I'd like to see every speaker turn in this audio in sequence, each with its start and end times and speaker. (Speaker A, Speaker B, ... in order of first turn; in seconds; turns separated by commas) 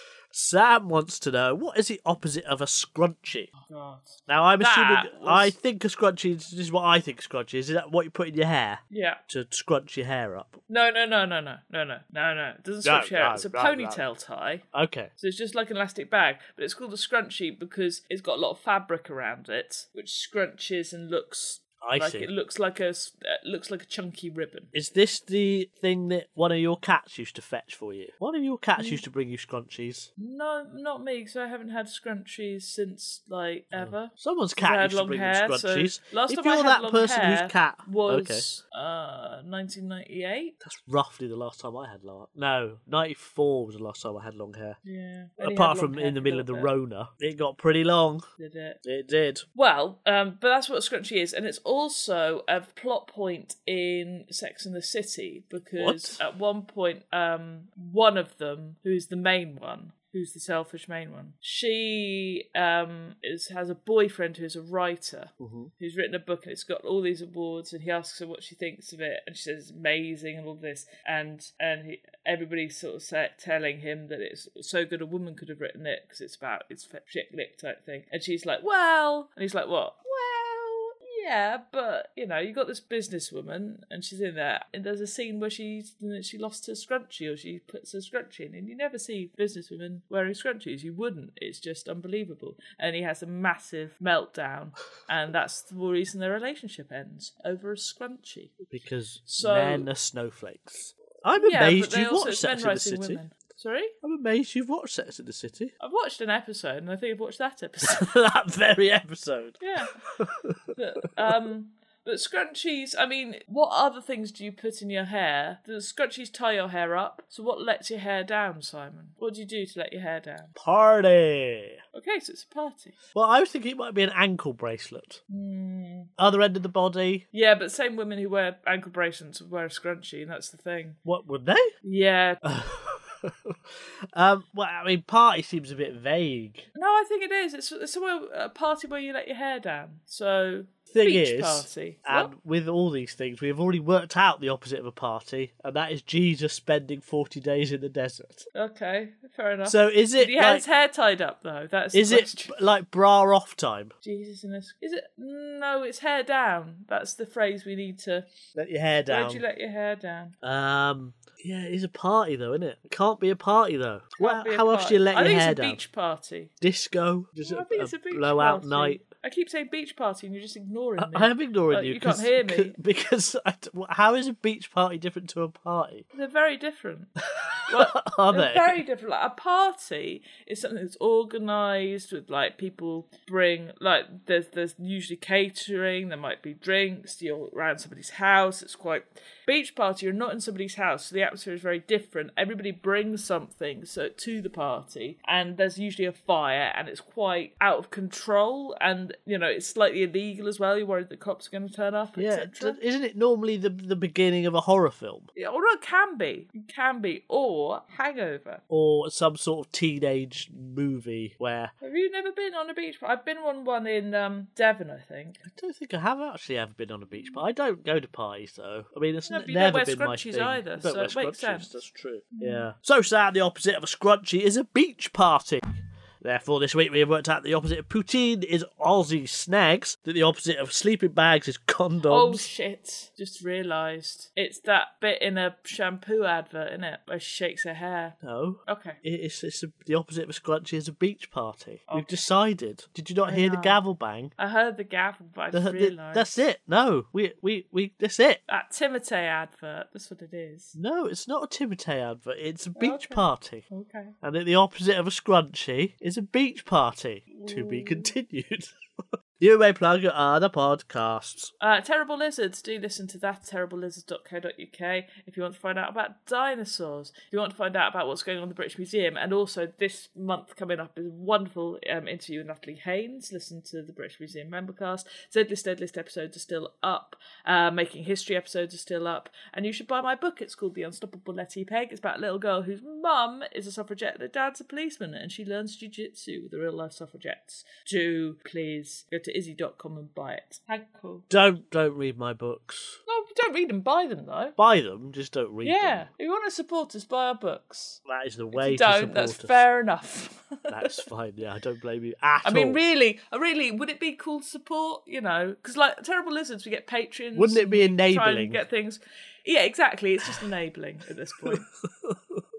Speaker A: 0.3-3.5, Speaker B: 3.6-5.5, Speaker A: 4.3-10.6, Speaker B: 8.9-9.2, Speaker B: 10.7-14.7, Speaker A: 12.8-14.0, Speaker A: 14.7-15.1, Speaker B: 15.2-24.7, Speaker A: 21.8-22.3, Speaker A: 24.7-30.1, Speaker B: 28.8-29.0, Speaker B: 30.2-40.6, Speaker A: 33.7-38.5, Speaker A: 40.6-44.8, Speaker B: 44.8-46.7, Speaker A: 45.4-48.3, Speaker B: 48.4-48.8, Speaker A: 48.8-49.5, Speaker B: 49.5-98.7, Speaker A: 55.8-56.2, Speaker A: 65.4-65.7, Speaker A: 98.7-103.2, Speaker B: 99.3-99.9, Speaker B: 101.3-103.9, Speaker A: 104.0-105.7, Speaker B: 105.8-108.0, Speaker A: 107.8-109.6, Speaker B: 109.6-110.0, Speaker A: 110.2-111.1, Speaker B: 110.8-120.5, Speaker A: 120.6-121.8, Speaker B: 121.9-123.0, Speaker A: 123.2-125.2, Speaker B: 125.3-126.1, Speaker A: 126.2-127.2, Speaker B: 127.3-131.0, Speaker A: 131.1-131.7, Speaker B: 131.8-132.4, Speaker A: 132.4-136.7, Speaker B: 136.8-142.3, Speaker A: 140.9-148.5, Speaker B: 148.5-152.6, Speaker A: 149.7-150.6, Speaker A: 151.9-153.9, Speaker B: 154.0-158.3, Speaker A: 158.6-159.4, Speaker B: 159.1-160.3, Speaker A: 160.4-165.8, Speaker B: 164.2-166.5, Speaker A: 166.6-169.0, Speaker B: 167.4-172.8, Speaker A: 171.0-176.1, Speaker B: 176.1-177.1, Speaker A: 177.6-178.8, Speaker B: 177.7-202.8, Speaker A: 202.2-205.3, Speaker B: 205.3-208.6, Speaker A: 208.7-211.7, Speaker B: 211.8-215.4, Speaker A: 215.5-232.5, Speaker B: 219.3-222.7, Speaker B: 232.1-239.0, Speaker A: 238.2-244.3, Speaker B: 241.9-242.3, Speaker B: 243.2-243.8, Speaker B: 244.4-246.4, Speaker A: 245.5-248.4, Speaker B: 248.5-250.8, Speaker A: 250.8-253.7, Speaker B: 252.8-254.2, Speaker A: 254.2-258.7, Speaker B: 257.4-258.1, Speaker A: 259.4-261.5, Speaker B: 261.6-291.2, Speaker A: 291.3-293.0, Speaker B: 293.1-294.6, Speaker A: 294.6-296.1, Speaker B: 295.6-301.0, Speaker A: 298.1-299.6, Speaker A: 300.7-302.8, Speaker B: 302.4-311.7, Speaker A: 307.4-308.6, Speaker A: 311.5-312.4